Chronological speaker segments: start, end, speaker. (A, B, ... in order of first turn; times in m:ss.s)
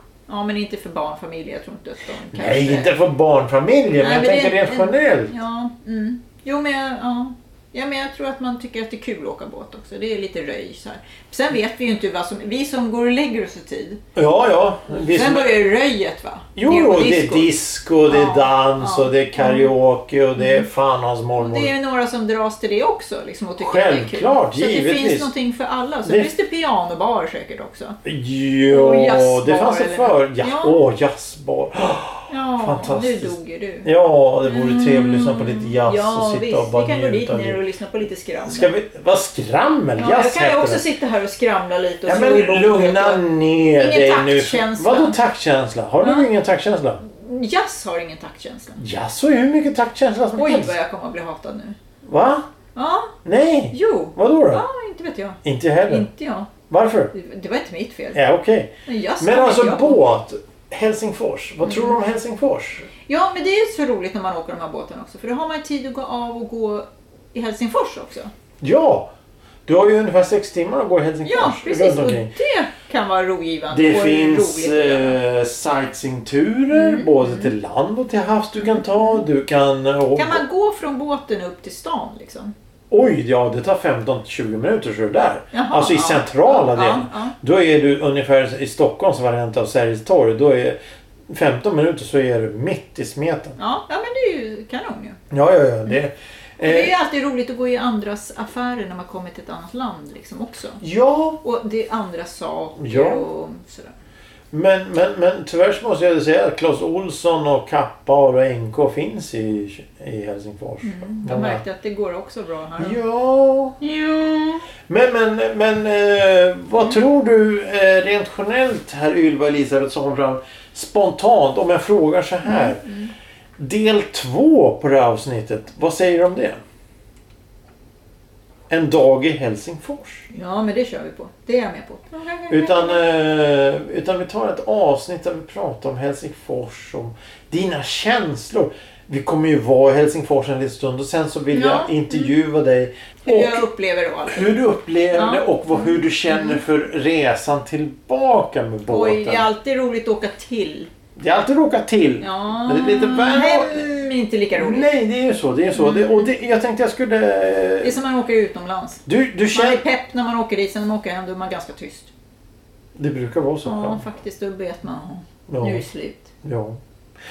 0:00.3-0:02.9 A
0:02.3-0:05.3 B
0:04.0-0:14.0 A
0:14.1-0:15.6 B
0:14.9-0:17.5 A
0:16.6-0:21.7 B
0:18.1-0:19.7 A
0:20.4-0:20.6 A
0:21.4-0:28.0 A
0:23.6-0:25.3 B
0:26.0-0:26.3 B
0:28.0-0:37.6 B
0:28.7-0:30.8 A
0:32.3-0:33.9 A
0:34.4-0:38.7 A
0:38.4-0:40.8 B
0:40.0-0:43.2 A
0:42.0-0:47.0 B
0:43.8-0:45.2 A
0:46.0-0:46.3 A
0:47.0-0:48.8 A
0:48.8-0:50.7 B
0:50.4-0:51.8 A
0:52.0-0:52.4 B
0:52.7-0:53.1 A
0:53.2-0:54.6 B
0:53.7-0:56.5 A
0:55.4-0:56.1 B
0:56.7-0:57.1 B
0:57.1-0:58.2 A
0:58.1-1:02.9 B
0:58.8-1:00.0 A
1:01.6-1:02.0 A
1:03.1-1:08.3 A
1:08.6-1:09.1 B
1:09.6-1:12.3 B
1:11.2-1:15.2 A
1:13.7-1:20.4 B
1:16.7-1:17.5 A
1:18.6-1:19.1 A
1:20.1-1:22.5 A
1:22.9-1:30.8 B
1:25.5-1:27.3 A
1:31.3-1:33.6 B
1:33.6-1:35.2 A
1:35.3-1:36.9 B
1:36.6-1:40.8 A
1:40.8-1:41.4 B
1:41.4-1:43.9 A
1:42.8-1:43.2 B
1:44.5-1:51.6 B
1:50.8-1:53.0 A
1:52.8-1:53.8 B
1:53.8-1:54.6 A
1:54.9-2:02.8 B
2:02.4-2:03.1 A
2:03.6-2:06.6 B
2:08.7-2:10.3 B
2:10.3-2:13.0 A
2:12.5-2:23.6 B
2:21.5-2:22.3 A
2:23.2-2:24.6 A
2:24.2-2:29.5 B
2:25.1-2:26.6 A
2:28.9-2:30.9 A
2:31.2-2:33.9 B
2:32.2-2:34.9 A
2:34.5-2:38.0 B
2:35.8-2:36.3 A
2:37.8-2:42.1 A
2:39.0-2:39.8 B
2:43.0-2:44.0 B
2:43.6-2:46.3 A
2:45.5-2:45.8 B
2:46.4-2:46.8 B